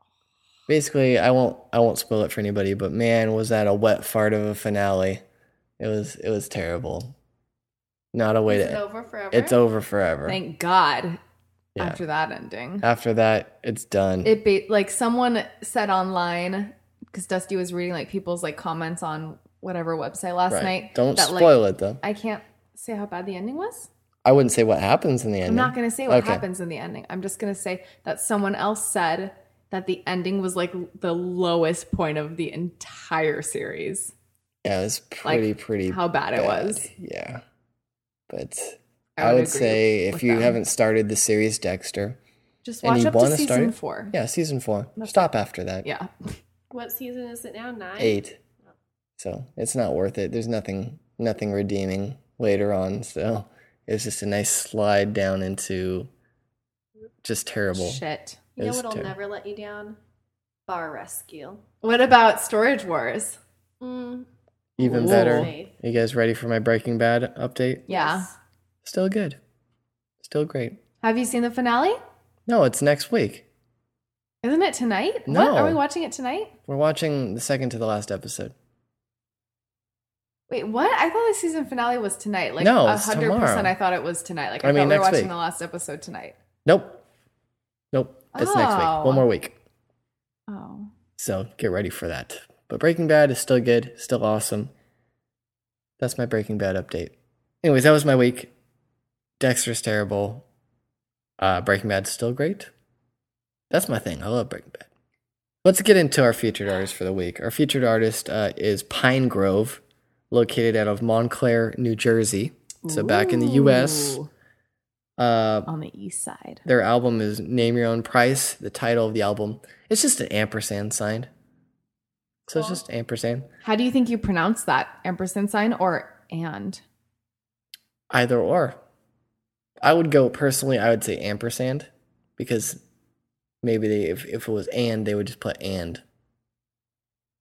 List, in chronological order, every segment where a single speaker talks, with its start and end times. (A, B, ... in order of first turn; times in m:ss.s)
0:00.7-0:05.2 A
0:05.8-0:07.2 A
0:08.1-0:10.4 A
0:08.5-0:09.6 B
0:10.3-0:11.2 C
0:11.8-0:12.0 A
0:11.8-0:12.9 C
0:12.8-0:14.4 A
0:14.2-0:23.9 C
0:20.5-0:22.0 A
0:24.2-0:26.4 A
0:25.5-0:34.1 C
0:34.6-0:37.4 A
0:35.2-0:36.9 C
0:38.3-0:42.2 A
0:39.2-0:40.6 C
0:42.6-0:44.1 C
0:42.8-0:45.9 A
0:45.0-0:45.3 C
0:45.8-0:46.1 C
0:46.7-0:48.2 B
0:48.0-0:48.4 A
0:49.2-0:56.1 A
0:57.2-0:58.0 A
0:57.8-0:58.4 C
0:58.6-1:00.0 B
0:58.6-0:59.1 A
1:00.7-1:01.6 B
1:01.8-1:03.4 C
1:03.8-1:04.3 B
1:04.8-1:05.7 B
1:04.8-1:07.9 A
1:04.8-1:05.5 C
1:07.9-1:08.3 C
1:07.9-1:08.3 B
1:08.8-1:09.4 A
1:10.2-1:10.8 A
1:11.0-1:12.0 C
1:12.5-1:13.5 A
1:14.4-1:16.5 C
1:15.3-1:15.8 A
1:16.7-1:18.5 A
1:20.5-1:26.4 C
1:22.6-1:23.7 A
1:24.6-1:25.3 A
1:26.6-1:27.0 A
1:27.9-1:29.6 A
1:28.3-1:29.3 C
1:30.5-1:30.9 C
1:31.2-1:34.7 A
1:36.0-1:38.5 A
1:39.4-1:40.5 A
1:41.4-1:42.7 A
1:43.7-1:44.9 A
1:45.6-1:54.2 A
1:52.8-1:54.3 C
1:55.2-1:55.7 A
1:55.7-1:56.6 C
1:56.6-2:01.3 A
2:02.5-2:03.5 A
2:03.6-2:06.8 C
2:08.1-2:08.8 A
2:09.8-2:12.8 A
2:13.6-2:16.0 A